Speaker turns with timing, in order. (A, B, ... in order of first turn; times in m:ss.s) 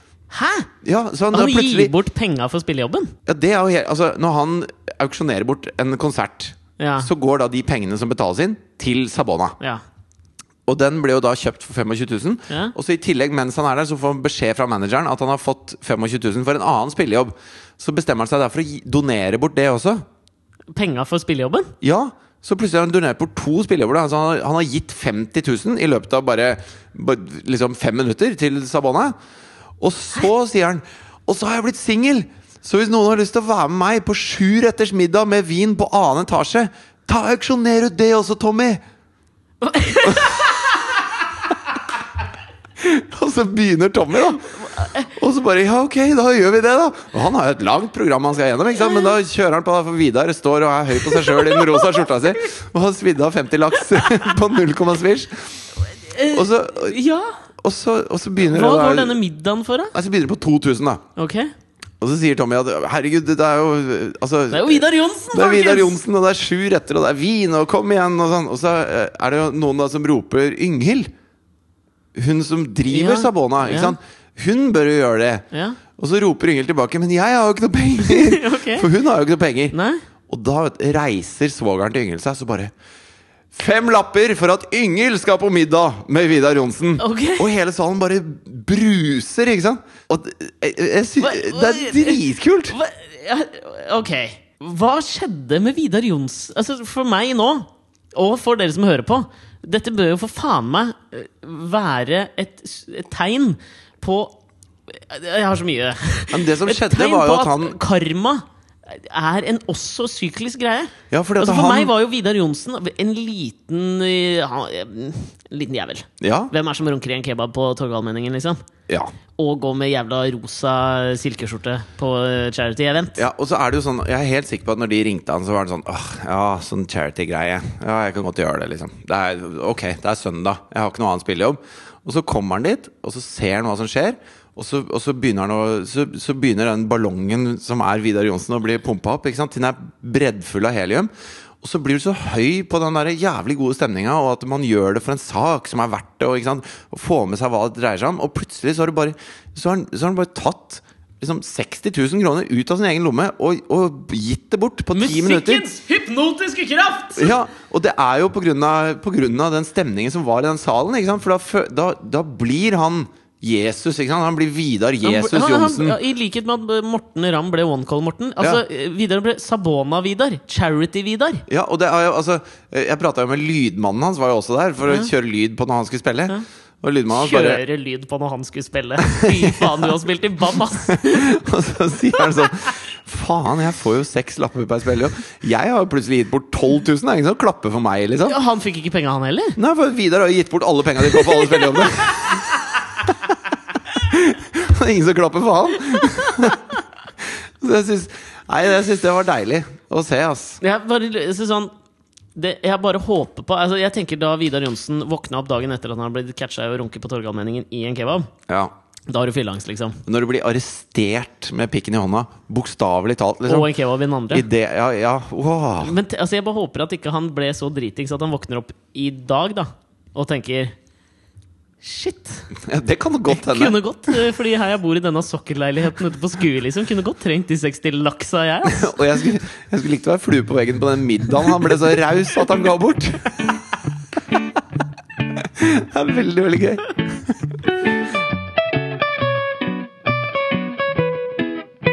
0:00.3-0:00.7 A
0:00.8-0:01.9 B
0:01.3-0:03.1 A
0:03.3-0:09.6 B
0:06.8-0:07.1 A
0:10.7-0:20.0 B
0:20.7-0:21.7 A
0:21.8-0:29.1 B
0:29.8-0:38.8 B
0:39.6-0:40.7 A
0:40.0-0:40.4 B
0:42.8-0:44.4 B
0:44.6-0:45.1 A
0:45.1-0:55.6 B
0:51.1-0:51.9 A
0:56.0-0:57.4 A
0:56.3-0:57.0 B
0:57.6-0:59.2 B
0:58.4-0:59.9 A
0:59.9-1:01.0 B
1:01.2-1:01.5 A
1:02.0-1:11.1 B
1:04.5-1:06.0 A
1:12.2-1:15.4 B
1:12.9-1:14.0 A
1:15.5-1:15.8 A
1:16.0-1:19.8 B
1:18.0-1:18.9 A
1:19.7-1:20.0 A
1:20.3-1:22.7 B
1:23.5-1:32.8 B
1:27.0-1:27.5 A
1:31.2-1:58.6 A
1:46.3-1:47.8 B
1:51.1-1:51.9 B
1:56.2-1:56.5 B
1:59.4-2:03.2 A
2:03.2-2:21.1 B
2:21.6-2:35.7 B
2:34.9-2:37.4 A
2:37.2-2:46.0 B
2:45.0-2:51.4 A
2:51.5-2:57.6 B
2:57.1-3:01.4 A
2:59.0-2:59.9 B
3:00.9-3:08.4 B
3:08.3-3:09.6 A
3:09.6-3:12.5 B
3:11.5-3:12.2 A
3:13.9-3:20.6 B
3:20.6-3:21.7 A
3:22.4-3:28.3 A
3:28.5-3:28.7 B
3:29.1-3:30.0 A
3:30.1-3:33.7 B
3:33.5-3:34.5 A
3:34.3-3:36.0 B
3:35.8-3:40.8 A
3:41.8-3:42.5 A
3:42.6-3:44.2 B
3:43.3-3:49.0 A
3:48.6-3:53.6 B
3:55.4-3:57.3 B